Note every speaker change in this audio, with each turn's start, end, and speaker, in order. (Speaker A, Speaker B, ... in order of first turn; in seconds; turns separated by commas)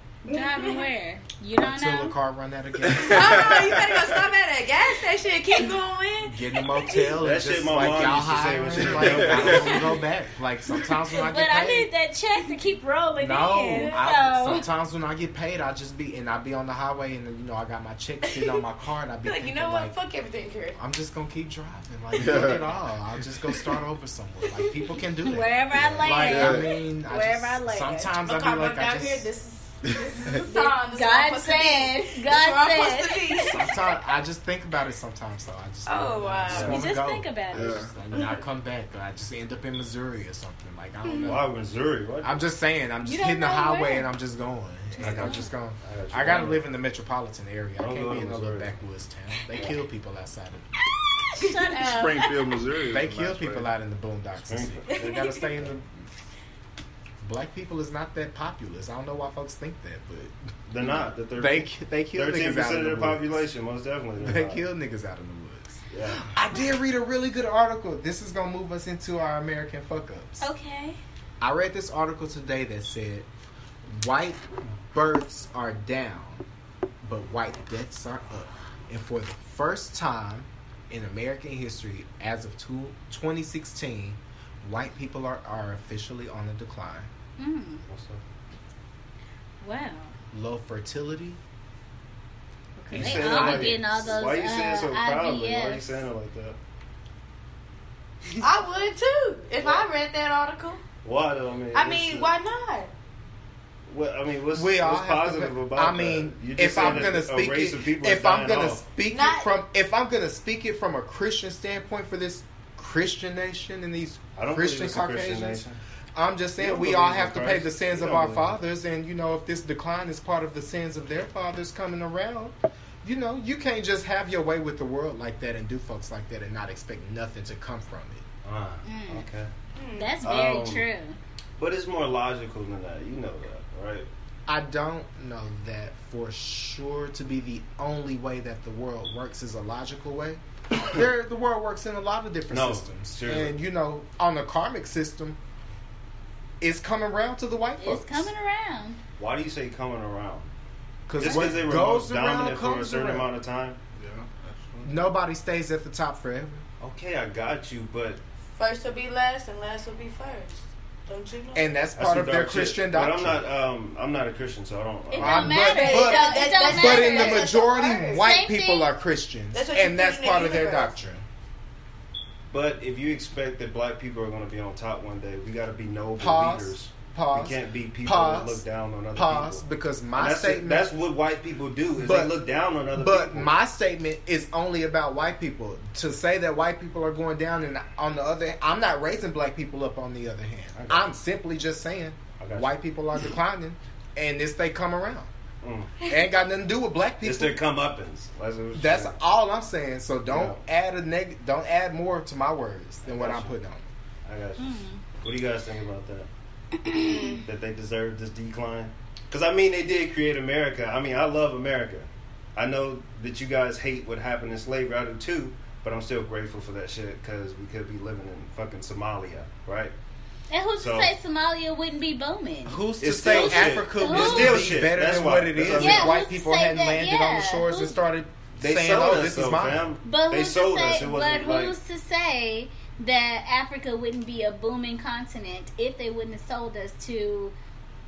Speaker A: 0.2-0.8, Speaker B: 0.3-2.1, Speaker C: 1.6-3.8, Speaker D: 2.9-4.0, Speaker A: 3.0-7.2, Speaker C: 6.2-11.9, Speaker E: 7.2-10.0, Speaker D: 8.8-9.8, Speaker B: 11.2-14.7, Speaker C: 13.2-20.0, Speaker A: 13.7-14.0, Speaker A: 18.3-18.6, Speaker A: 19.2-20.8, Speaker C: 20.8-29.3, Speaker D: 22.1-22.7, Speaker A: 24.5-24.8, Speaker B: 25.2-28.1, Speaker E: 25.7-26.2, Speaker D: 26.2-26.7, Speaker A: 28.1-33.7, Speaker B: 30.4-33.6, Speaker C: 33.4-41.5, Speaker A: 35.9-36.8, Speaker E: 36.5-36.8, Speaker B: 36.5-38.2, Speaker D: 37.5-37.9, Speaker A: 41.0-41.3, Speaker E: 41.2-42.4, Speaker C: 42.2-50.7, Speaker B: 43.0-44.0, Speaker A: 43.5-43.8, Speaker E: 45.0-46.6, Speaker B: 45.1-45.5, Speaker E: 47.8-48.7, Speaker B: 51.3-52.5, Speaker D: 51.8-53.7, Speaker C: 52.9-55.9, Speaker E: 54.5-55.7, Speaker A: 54.9-55.2, Speaker C: 57.2-63.4, Speaker E: 60.7-64.6, Speaker C: 64.2-70.5, Speaker E: 65.9-66.3, Speaker B: 70.4-71.0, Speaker C: 71.4-73.3, Speaker C: 73.9-76.4, Speaker C: 77.0-87.1, Speaker B: 87.4-87.8, Speaker E: 87.8-88.2, Speaker B: 89.6-90.1, Speaker C: 90.3-91.4, Speaker B: 92.8-95.9, Speaker C: 92.9-93.8, Speaker E: 92.9-96.6, Speaker A: 98.4-100.8, Speaker E: 99.6-99.9, Speaker E: 101.0-102.3, Speaker A: 101.7-102.9, Speaker E: 103.9-108.8, Speaker C: 104.5-128.2, Speaker A: 109.1-109.5, Speaker E: 114.4-115.8, Speaker E: 116.6-118.5, Speaker E: 128.4-129.5, Speaker B: 128.8-129.2, Speaker A: 129.8-130.2, Speaker B: 130.0-131.2, Speaker E: 130.2-130.8, Speaker E: 131.6-134.1, Speaker C: 134.5-145.4, Speaker E: 142.5-143.6, Speaker C: 146.6-148.3, Speaker B: 147.8-149.0, Speaker E: 149.2-150.5, Speaker C: 151.1-153.3, Speaker E: 151.2-153.8, Speaker D: 154.0-154.9, Speaker C: 154.8-156.6, Speaker E: 156.8-158.2, Speaker A: 158.6-161.8, Speaker C: 161.5-163.4, Speaker E: 161.9-165.5, Speaker B: 165.1-167.5, Speaker C: 165.2-171.2, Speaker A: 165.6-168.2, Speaker B: 168.2-168.9, Speaker A: 169.5-170.9, Speaker E: 172.5-179.6, Speaker C: 176.2-178.6, Speaker C: 179.1-180.9, Speaker E: 180.2-183.5, Speaker C: 182.0-182.3, Speaker C: 182.9-195.3, Speaker E: 190.8-191.1, Speaker E: 192.4-192.7, Speaker E: 195.6-195.9, Speaker C: 196.0-197.6, Speaker E: 197.2-199.2, Speaker C: 198.7-203.8, Speaker E: 200.3-200.6, Speaker E: 203.0-203.5, Speaker E: 204.2-206.3, Speaker B: 204.6-205.0, Speaker B: 206.9-207.4, Speaker A: 206.9-207.4, Speaker E: 207.2-219.9, Speaker B: 220.5-224.7, Speaker E: 220.8-221.1, Speaker C: 222.7-229.8, Speaker E: 223.0-226.2, Speaker B: 225.8-228.0, Speaker E: 228.6-231.7, Speaker B: 230.0-237.5